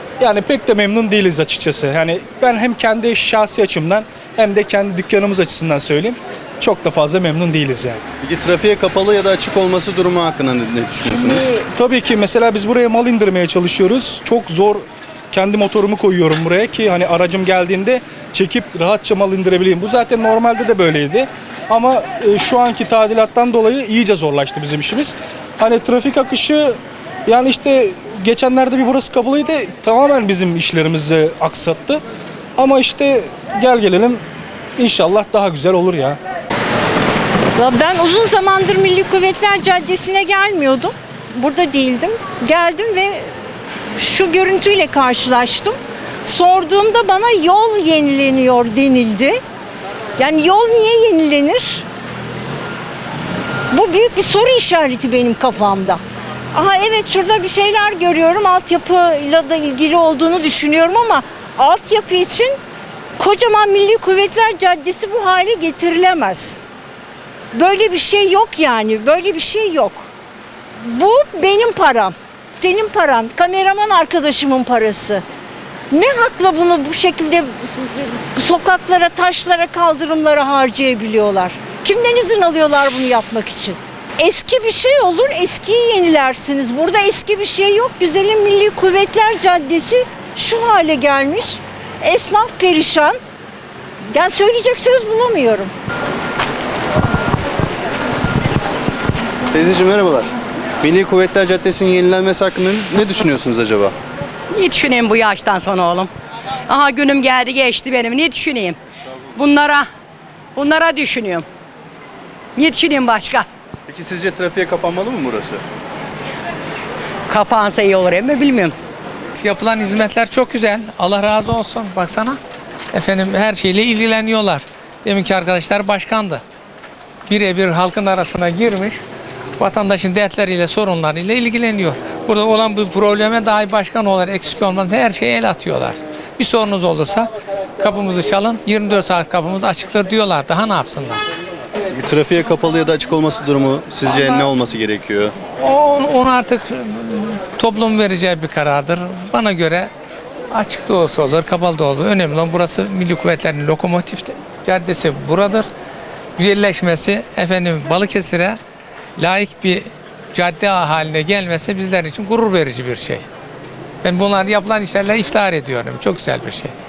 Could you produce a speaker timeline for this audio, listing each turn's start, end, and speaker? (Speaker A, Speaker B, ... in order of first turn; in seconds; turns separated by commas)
Speaker A: 0.2-8.0, Speaker B: 8.2-11.5, Speaker A: 11.7-32.0, Speaker A: 32.6-34.2, Speaker A: 34.8-36.2, Speaker C: 37.6-43.2, Speaker C: 44.0-49.4, Speaker C: 50.2-51.8, Speaker C: 53.7-56.0, Speaker C: 56.5-62.5, Speaker C: 63.2-66.6, Speaker C: 67.5-70.0, Speaker C: 70.9-75.2, Speaker C: 75.9-93.2, Speaker C: 94.1-95.7, Speaker B: 99.5-100.3, Speaker B: 100.8-103.9, Speaker D: 104.6-106.1, Speaker D: 106.7-108.7, Speaker D: 109.4-109.8, Speaker D: 110.6-111.4, Speaker D: 112.6-113.4, Speaker B: 113.9-115.6, Speaker D: 117.5-118.7, Speaker E: 119.4-122.4, Speaker E: 122.9-126.4, Speaker E: 127.3-129.0, Speaker E: 129.6-141.2, Speaker B: 141.9-145.3, Speaker E: 145.6-149.9, Speaker E: 150.5-155.7, Speaker E: 156.4-158.6, Speaker E: 159.2-163.2, Speaker E: 164.0-166.7